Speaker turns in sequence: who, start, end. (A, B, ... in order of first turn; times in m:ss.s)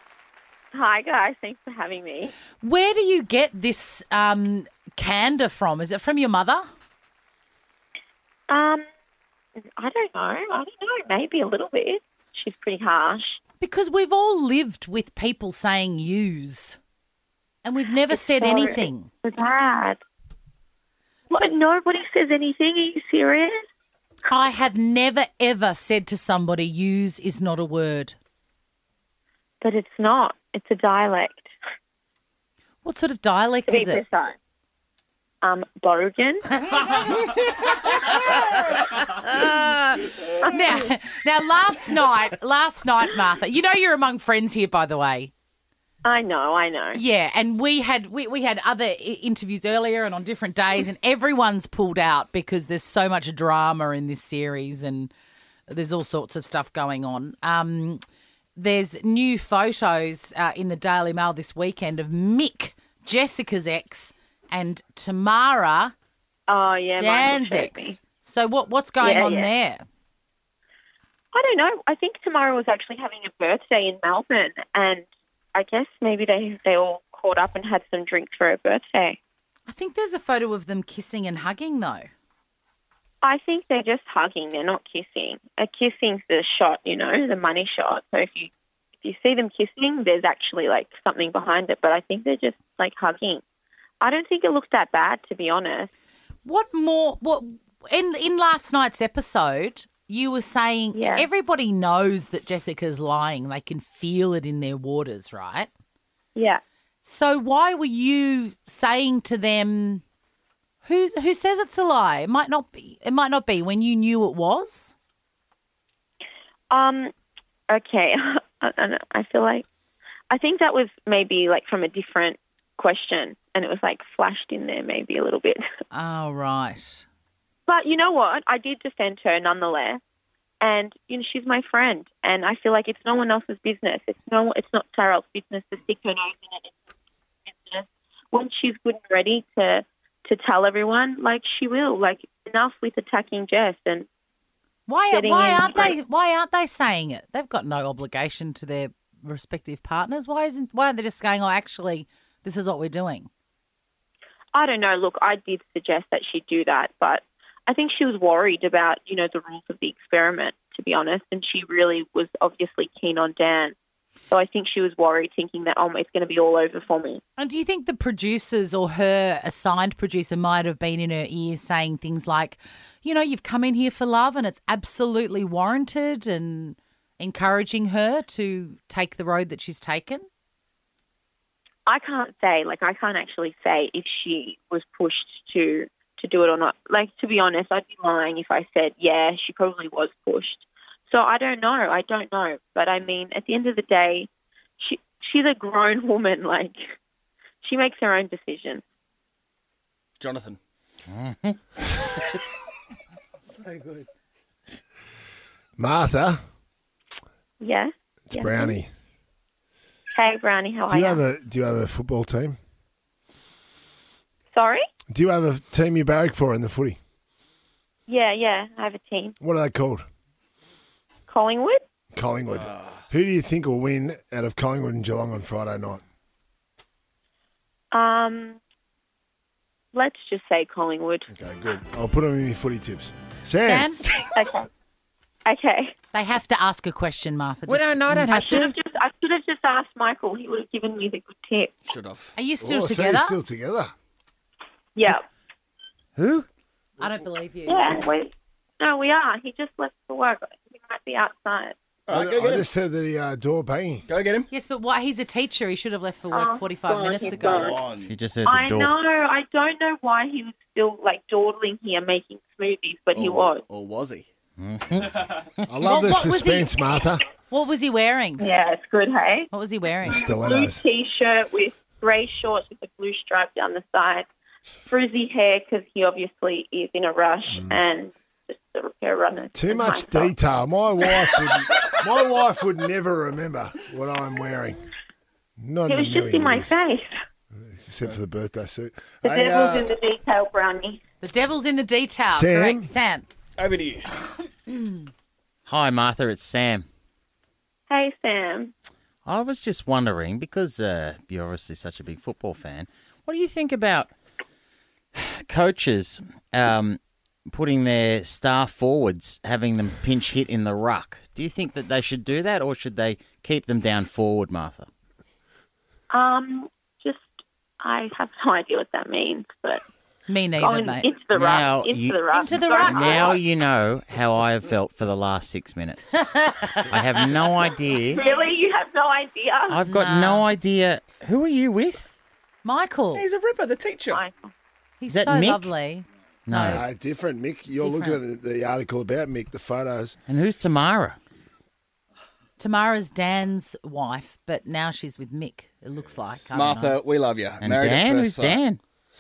0:00.7-0:02.4 A
0:02.6-0:06.6 B
0:08.5-0:08.8 A
0:09.8-0:13.4 A
0:13.6-0:16.8 B
0:17.6-0:19.1 B
0:18.1-0:20.0 A
0:21.3-0:23.6 A
0:24.3-0:28.2 B
0:29.6-0:31.5 A
0:32.8-0:34.0 B
0:33.7-0:34.4 A
0:35.4-0:36.5 A
0:36.7-0:38.4 B
0:38.9-0:45.3 B
0:46.0-0:47.0 A
0:46.9-0:55.1 B
0:55.7-0:58.0 B
0:58.6-1:05.9 B
1:06.5-1:08.0 A
1:07.0-1:09.8 B
1:09.0-1:09.5 A
1:11.3-1:19.2 A
1:19.7-1:22.1 B
1:23.2-1:28.5 A
1:29.0-1:33.4 A
1:34.0-1:35.9 A
1:36.4-1:45.7 B
1:41.0-1:41.3 A
1:47.0-1:50.0 B
1:50.8-1:55.0 B
1:56.7-1:57.1 A
1:57.7-1:59.6 A
2:00.3-2:05.6 A
2:05.9-2:07.0 B
2:07.7-2:10.0 A
2:10.6-2:16.7 A
2:17.5-2:24.1 A
2:24.9-2:33.3 B
2:25.1-2:26.0 A
2:34.5-2:43.8 A
2:44.3-2:47.2 A
2:47.4-3:00.3 B
3:01.9-3:16.8 A
3:17.6-3:18.8 A
3:20.2-3:20.6 C
3:21.1-3:21.6 D
3:23.6-3:24.1 C
3:25.8-3:26.4 E
3:27.6-3:28.8 A
3:28.3-3:28.9 E
3:30.1-3:31.2 A
3:30.9-3:32.6 E
3:34.5-3:34.8 A
3:35.1-3:37.0 E
3:38.1-3:39.4 A
3:39.4-3:40.0 E
3:41.3-3:41.8 A
3:42.1-3:46.0 E
3:42.5-3:43.0 C
3:47.9-3:48.6 A
3:49.9-3:51.3 A
3:51.3-3:53.9 E
3:53.6-3:54.0 B
3:54.3-3:54.7 A
3:55.5-3:55.9 A
3:56.1-3:58.7 B
3:57.7-3:58.7 D
3:58.3-4:01.8 A
4:01.9-4:02.3 C
4:02.4-4:03.4 B
4:02.6-4:03.9 E
4:05.0-4:05.2 A
4:06.2-4:06.5 D
4:07.0-4:08.0 B
4:07.7-4:11.8 A
4:12.1-4:12.7 C
4:12.1-4:14.0 E
4:14.1-4:14.5 C
4:14.5-4:17.7 B
4:16.3-4:17.8 A
4:17.2-4:18.1 C
4:18.0-4:18.9 D
4:18.4-4:23.6 A
4:23.1-4:24.3 C
4:24.6-4:25.2 D
4:25.7-4:27.3 E
4:25.8-4:26.8 B
4:27.5-4:28.4 B
4:28.4-4:29.5 A
4:29.5-4:30.2 B
4:30.0-4:30.8 E
4:30.0-4:34.3 A
4:34.9-4:40.3 A
4:37.5-4:37.8 E
4:39.6-4:44.8 E
4:45.6-4:46.8 E
4:45.9-4:47.1 A
4:47.6-4:50.0 E
4:49.2-4:51.0 A
4:51.2-4:53.3 B
4:52.3-4:52.9 E
4:53.6-4:54.1 C
4:55.7-4:56.9 D
4:57.9-4:58.7 A
4:59.2-5:04.1 D
5:05.2-5:14.9 D
5:16.1-5:19.8 A
5:20.3-5:21.1 B
5:20.6-5:23.4 A
5:21.3-5:22.3 D
5:22.3-5:23.4 B
5:22.8-5:26.2 D
5:26.2-5:26.8 B
5:26.8-5:28.2 D
5:28.1-5:29.8 A
5:29.7-5:32.1 D
5:29.9-5:30.5 B
5:32.6-5:33.2 B
5:33.1-5:34.2 C
5:34.1-5:34.4 A
5:35.0-5:36.8 B
5:35.1-5:35.7 D
5:36.5-5:36.8 D
5:36.7-5:40.2 E
5:37.8-5:38.2 B
5:40.3-5:41.2 D
5:42.6-5:47.0 B
5:46.5-5:48.6 C
5:47.6-5:48.8 D